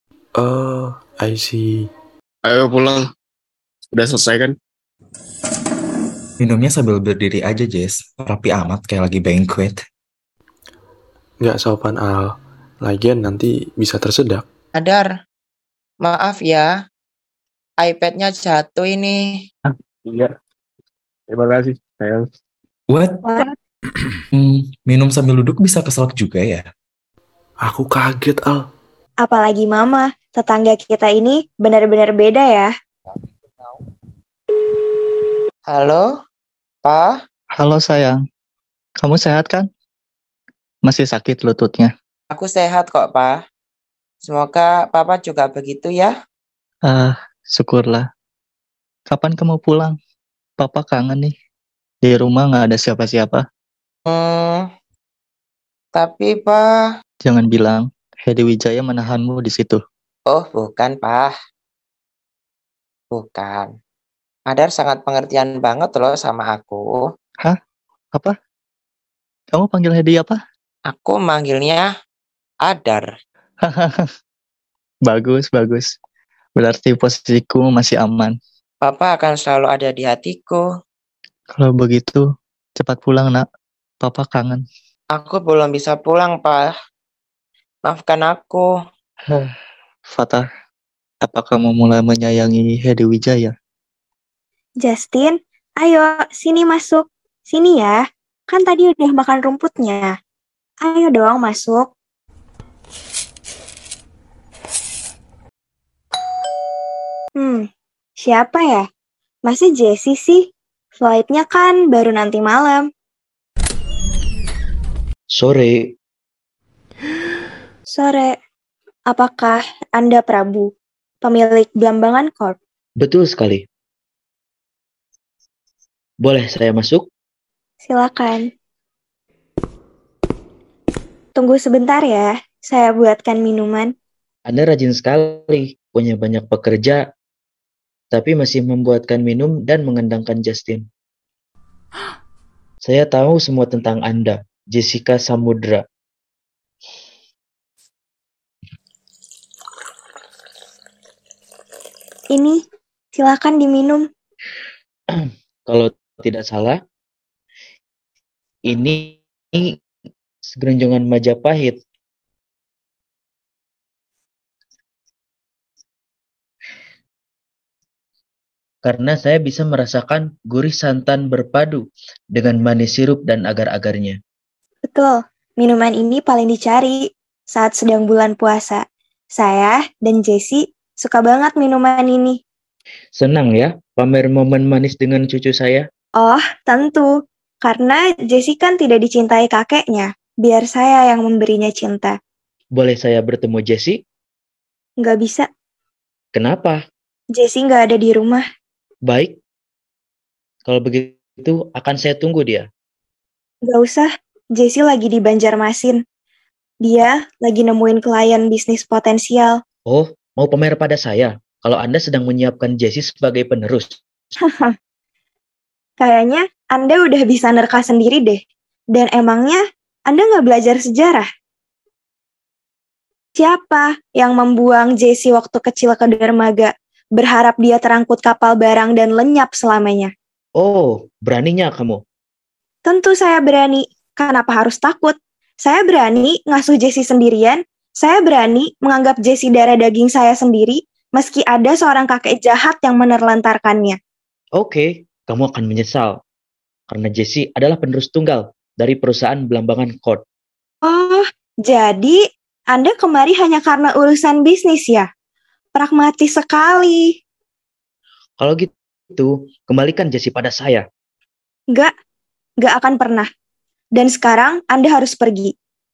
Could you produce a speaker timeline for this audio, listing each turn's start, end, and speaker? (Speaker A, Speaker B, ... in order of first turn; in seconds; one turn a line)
Speaker A: 0.3-1.9
Speaker B: 2.4-3.1
Speaker B: 3.9-4.5
Speaker C: 6.4-9.8
Speaker A: 11.4-14.4
Speaker D: 14.7-15.1
Speaker D: 16.0-16.7
Speaker D: 17.8-19.2
Speaker B: 20.0-20.3
Speaker B: 21.3-22.3
Speaker C: 22.9-23.2
Speaker C: 24.3-26.6
Speaker A: 27.6-28.6
Speaker E: 29.2-32.7
Speaker D: 35.7-36.1
Speaker D: 36.8-37.1
Speaker F: 37.5-38.2
Speaker F: 39.0-39.7
Speaker F: 40.8-41.9
Speaker D: 42.3-43.4
Speaker D: 44.2-46.1
Speaker F: 46.8-48.1
Speaker F: 49.1-50.0
Speaker F: 50.6-51.3
Speaker F: 52.0-53.5
Speaker D: 54.1-54.6
Speaker D: 55.9-56.6
Speaker F: 57.2-59.8
Speaker D: 60.3-61.3
Speaker D: 63.1-63.7
Speaker D: 64.5-67.0
Speaker F: 69.5-70.4
Speaker D: 70.9-71.9
Speaker D: 72.6-73.0
Speaker F: 73.6-74.1
Speaker F: 75.0-75.9
Speaker F: 76.5-78.4
Speaker D: 78.8-80.6
Speaker F: 81.5-83.4
Speaker F: 84.0-84.6
Speaker D: 85.1-86.7
Speaker D: 87.8-88.7
Speaker F: 89.3-89.5
Speaker F: 90.1-90.5
Speaker F: 91.2-93.5
Speaker E: 94.8-100.1
Speaker E: 100.8-101.9
Speaker E: 107.4-107.7
Speaker E: 108.2-108.8
Speaker E: 109.5-112.8
Speaker G: 115.3-115.9
Speaker E: 117.9-118.3
Speaker E: 119.1-120.7
Speaker E: 121.2-122.6
Speaker G: 123.0-123.6
Speaker G: 126.2-127.1
Speaker E: 127.8-128.5
Speaker E: 131.3-133.9
Speaker G: 134.4-137.0
Speaker G: 138.1-140.8
Speaker G: 142.8-145.8
Speaker E: 152.3-152.6
Speaker E: 153.1-154.1
Speaker G: 155.1-156.8
Speaker G: 158.7-159.7
Speaker G: 160.5-161.8
Speaker G: 168.8-174.2
Speaker E: 174.9-182.4
Speaker G: 183.1-185.8
Speaker E: 186.2-187.1
Speaker E: 187.6-192.1
Speaker G: 192.7-194.0
Speaker E: 195.0-195.5
Speaker G: 196.3-196.8
Speaker E: 197.3-198.4
Speaker G: 199.1-199.4
Speaker G: 200.6-202.7
Speaker E: 203.6-206.0
Speaker E: 206.8-209.6
Speaker G: 209.9-214.0
Speaker E: 216.0-218.4
Speaker E: 218.9-221.2
Speaker E: 223.3-230.1
Speaker G: 230.6-232.0
Speaker E: 232.8-244.0
Speaker G: 244.6-246.2
Speaker G: 246.9-250.2
Speaker E: 250.8-252.2
Speaker E: 252.7-255.1
Speaker E: 255.7-257.1
Speaker G: 258.4-260.8
Speaker E: 262.6-263.3
Speaker E: 263.9-265.5